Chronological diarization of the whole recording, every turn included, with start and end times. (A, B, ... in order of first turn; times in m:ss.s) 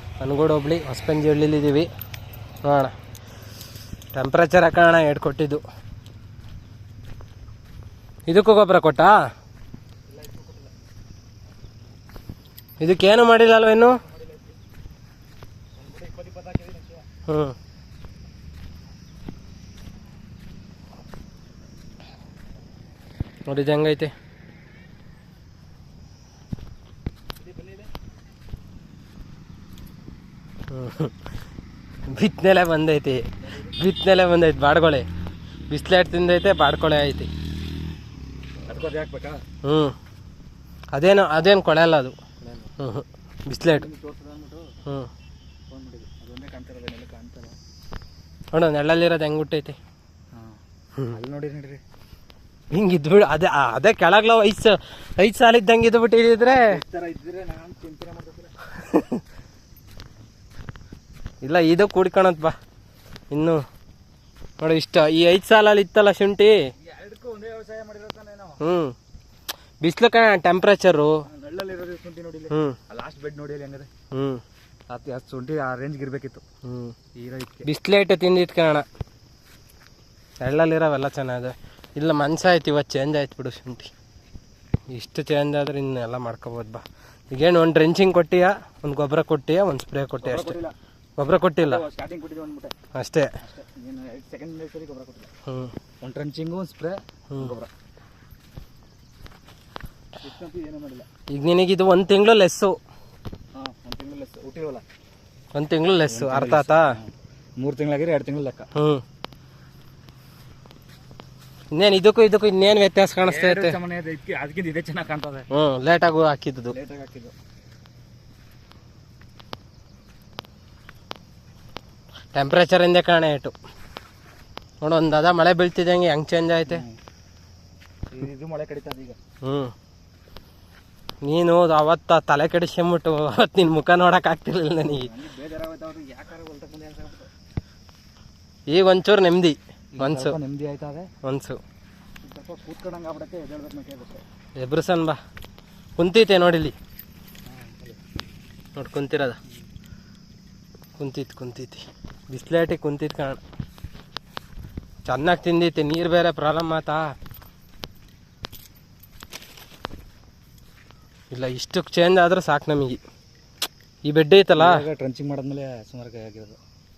0:00.2-0:01.9 A
0:02.6-0:02.9 A
0:04.1-0:05.6 A
0:08.3-0:09.1 A
0:10.1-0:10.7 B
0:12.8-0:14.0 A
0:14.0-0:14.6 B
0:15.8-0:17.1 B
0:17.3-0:17.6 A
0:23.5-0:24.1 A
0:27.4-0:27.9 B
0:30.7-0:31.2 A
0:32.1-0:35.1 A
0:33.4-0:33.8 B
0:35.7-0:37.3 A
0:38.7-0:39.4 B
0:39.6-0:40.0 A
0:40.9-0:42.2 A
0:42.4-0:42.7 B
0:42.8-0:43.9 A
0:43.7-0:44.6 B
0:45.7-0:47.6 B
0:48.5-0:49.8 A
0:50.3-0:51.8 B
0:52.7-0:56.8 A
0:56.6-0:58.7 B
0:58.8-0:59.2 A
1:01.4-1:02.6 A
1:03.3-1:03.6 A
1:04.6-1:06.6 A
1:06.8-1:08.6 B
1:08.6-1:09.0 A
1:09.8-1:11.2 A
1:11.3-1:13.9 B
1:12.5-1:12.8 A
1:14.1-1:14.4 A
1:14.9-1:16.4 B
1:16.6-1:17.0 A
1:17.2-1:17.7 B
1:17.6-1:18.9 A
1:20.4-1:23.9 A
1:24.9-1:30.6 A
1:30.2-1:30.8 B
1:31.2-1:31.8 A
1:31.6-1:32.7 B
1:32.9-1:33.3 A
1:33.4-1:35.3 B
1:35.5-1:35.7 A
1:36.0-1:37.7 B
1:40.2-1:41.1 B
1:41.3-1:42.8 A
1:43.6-1:44.8 B
1:45.5-1:46.9 A
1:46.1-1:48.7 B
1:48.8-1:49.0 A
1:51.7-1:53.8 A
1:53.2-1:55.5 B
1:55.5-1:56.8 A
1:56.7-1:57.3 B
2:02.3-2:03.6 A
2:04.8-2:06.8 A
2:06.7-2:07.0 B
2:08.1-2:09.2 B
2:09.4-2:09.7 A
2:11.2-2:15.1 A
2:14.8-2:17.3 B
2:18.7-2:20.4 A
2:20.0-2:21.1 B
2:21.2-2:21.6 A
2:22.2-2:24.2 B
2:24.6-2:25.2 A
2:26.0-2:26.8 A
2:27.5-2:28.0 B
2:28.8-2:29.4 A
2:31.0-2:33.4 A
2:35.1-2:37.0 A
2:41.3-2:43.0 A
2:44.0-2:44.8 A
2:44.4-2:46.6 B